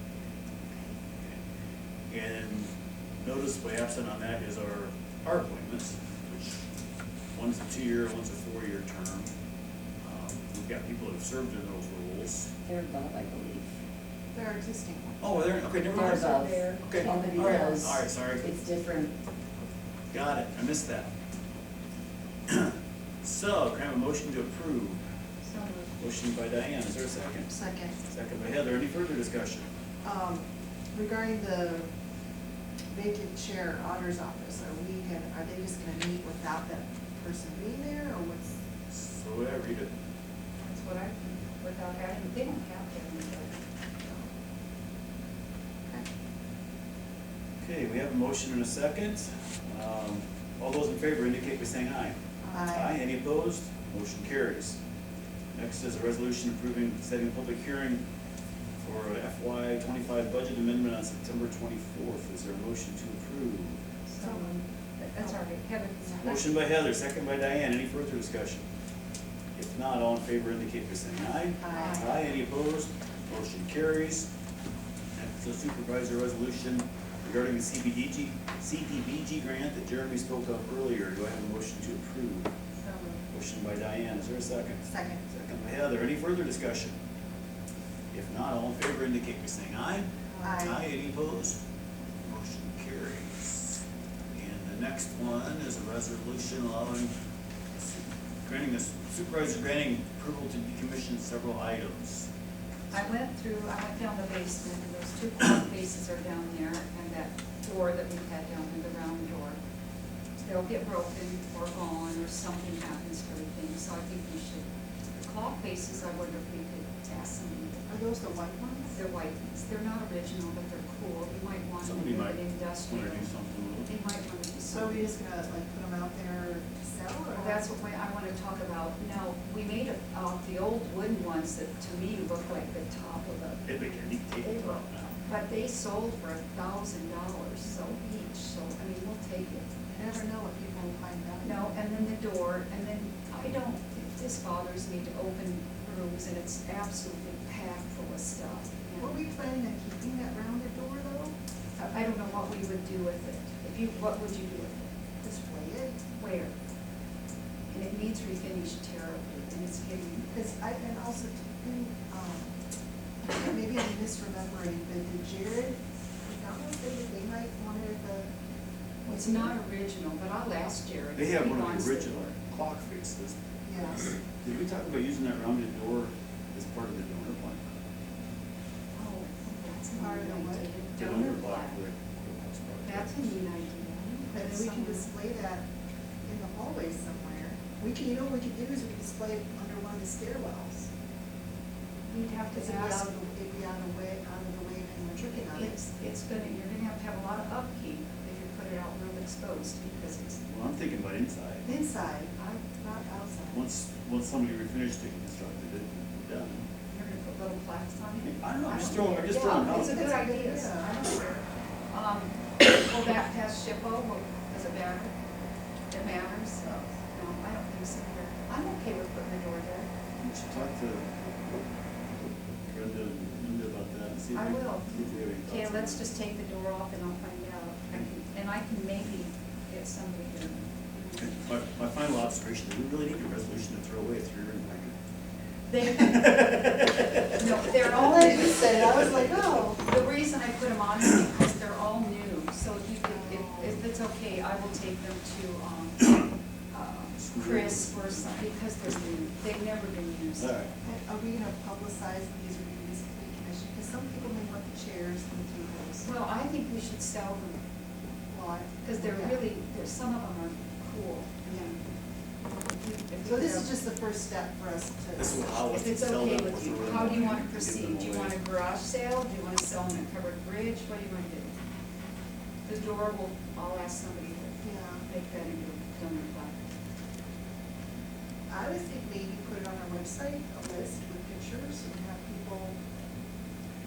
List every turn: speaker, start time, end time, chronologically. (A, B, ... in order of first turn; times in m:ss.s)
0:02.1-0:06.6 A
0:07.3-0:09.3 A
0:10.0-0:12.5 A
0:12.6-0:13.8 B
0:14.3-0:15.2 C
0:15.2-0:18.5 A
0:15.9-0:17.9 D
0:15.9-0:19.1 B
0:20.1-0:21.1 A
0:22.5-0:25.0 A
0:25.4-0:26.0 D
0:26.0-0:27.5 A
0:27.5-0:28.0 C
0:28.1-0:29.7 A
0:30.0-0:31.9 C
0:32.9-0:38.6 C
0:38.9-0:39.9 A
0:40.6-0:43.6 D
0:44.0-0:44.3 C
0:47.6-0:54.8 A
0:52.4-0:52.7 D
0:52.5-0:52.9 C
0:55.6-0:58.0 A
0:58.8-1:03.8 A
1:04.1-1:06.5 D
1:04.2-1:04.5 C
1:06.2-1:08.7 A
1:09.6-1:14.3 A
1:11.6-1:12.1 C
1:15.2-1:22.5 A
1:22.8-1:23.2 D
1:23.3-1:27.0 A
1:24.8-1:25.2 C
1:28.1-1:31.6 A
1:30.4-1:30.8 C
1:32.2-1:33.8 A
1:34.3-1:37.1 A
1:38.4-1:42.3 A
1:42.9-1:49.6 D
1:50.4-1:57.9 D
1:57.9-1:59.0 C
1:58.9-2:03.3 D
2:01.8-2:03.9 A
2:03.8-2:05.1 D
2:04.7-2:07.6 C
2:07.3-2:13.8 D
2:13.6-2:15.2 A
2:14.4-2:19.8 D
2:19.9-2:21.6 C
2:21.4-2:29.2 D
2:29.0-2:31.3 C
2:31.8-2:34.9 D
2:35.2-2:36.0 C
2:36.2-2:36.5 D
2:37.7-2:40.3 D
2:40.3-2:42.5 C
2:43.2-2:48.3 C
2:49.0-2:49.5 C
2:49.1-2:52.3 D
2:51.2-2:57.6 A
2:53.6-2:54.1 C
2:58.9-3:01.8 D
3:00.0-3:00.7 C
3:01.0-3:03.3 A
3:02.8-3:05.1 D
3:04.3-3:05.7 C
3:06.2-3:10.9 C
3:12.1-3:13.1 D
3:12.5-3:15.8 C
3:15.5-3:20.4 D
3:20.4-3:21.7 A
3:21.6-3:23.6 C
3:23.5-3:26.7 A
3:26.9-3:35.1 D
3:28.2-3:30.1 A
3:29.6-3:30.9 C
3:35.9-3:39.9 D
3:40.2-3:41.2 A
3:42.6-3:46.0 A
3:44.3-3:51.3 D
3:51.2-3:55.0 A
3:55.7-3:56.8 D
3:55.8-3:57.4 A
3:57.3-3:58.8 D
3:57.9-3:59.8 C
3:59.8-4:10.6 D
4:03.1-4:03.8 C
4:07.2-4:08.5 A
4:10.4-4:10.7 A
4:10.8-4:16.1 C
4:16.0-4:17.6 D
4:18.3-4:19.4 C
4:18.8-4:21.8 D
4:22.7-4:23.7 D
4:23.2-4:25.6 C
4:25.2-4:28.4 A
4:25.7-4:31.6 D
4:32.6-4:36.6 D
4:34.6-4:35.0 C
4:38.5-4:42.8 C